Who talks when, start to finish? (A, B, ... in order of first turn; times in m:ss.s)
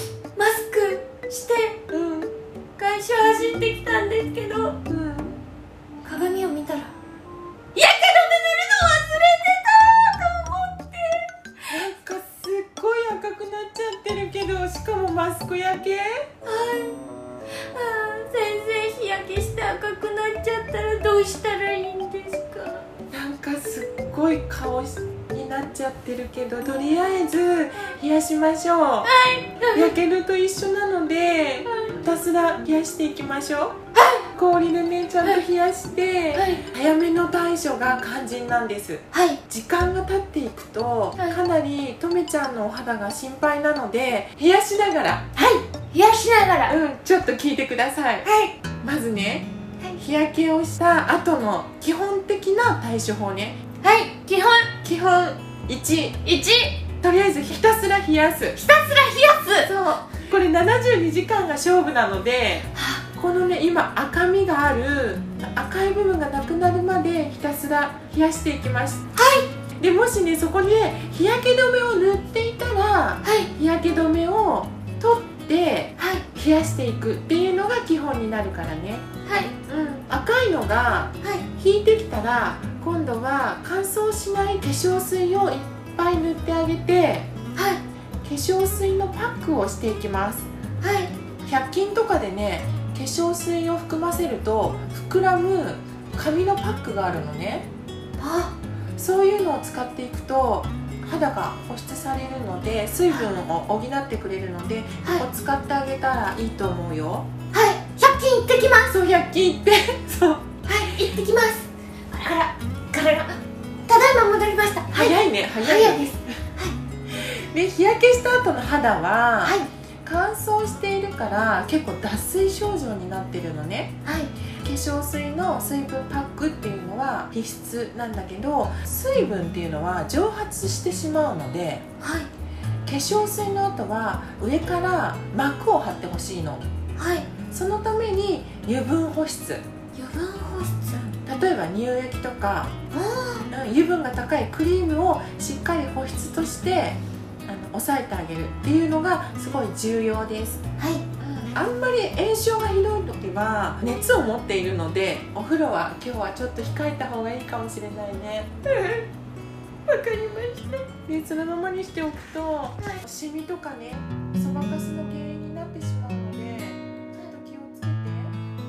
0:00.4-0:01.8 A
0:01.9-0:02.3 B
0:02.8-0:04.8 A
0:04.9-0:05.4 B
0:06.0-0:07.0 A
0:07.8-0:11.3 A
0:11.7-0:16.3 B
0:16.4-0:17.0 A
0:17.7-0:22.9 A
0:23.1-0:29.1 B
0:29.0-0:30.0 A
0:29.7-0:33.8 B
0:31.7-0:32.0 A
0:34.0-0:34.3 A
0:34.4-0:45.3 B
0:36.3-0:36.6 A
0:39.1-0:39.4 A
0:45.4-0:46.8 A
0:46.7-0:48.3 B
0:48.2-0:48.6 A
0:48.8-0:49.5 B
0:50.0-0:53.6 B
0:53.8-0:54.7 A
0:54.8-0:56.2 B
0:56.2-0:56.8 A
0:57.0-0:58.6 B
0:58.6-0:59.7 A
0:59.6-1:09.1 B
1:02.7-1:03.0 A
1:09.2-1:09.5 A
1:09.8-1:19.1 B
1:13.2-1:13.5 A
1:16.0-1:16.2 A
1:19.3-1:19.6 A
1:19.7-1:27.3 B
1:27.6-1:27.8 A
1:28.2-1:30.5 B
1:30.8-1:31.1 A
1:31.5-1:37.7 B
1:38.2-1:38.5 A
1:39.0-1:47.3 B
1:47.5-1:48.9 A
1:48.9-1:50.5 B
1:50.7-1:56.8 A
1:54.9-1:56.4 B
1:57.1-2:04.0 B
1:59.4-1:59.7 A
2:04.0-2:04.3 A
2:04.6-2:11.8 B
2:12.0-2:12.3 A
2:12.9-2:16.7 B
2:17.0-2:17.3 A
2:17.5-2:19.6 B
2:20.0-2:21.2 A
2:21.2-2:22.7 B
2:22.9-2:23.5 A
2:23.5-2:30.6 B
2:30.8-2:31.0 A
2:31.2-2:39.1 B
2:39.9-2:48.4 B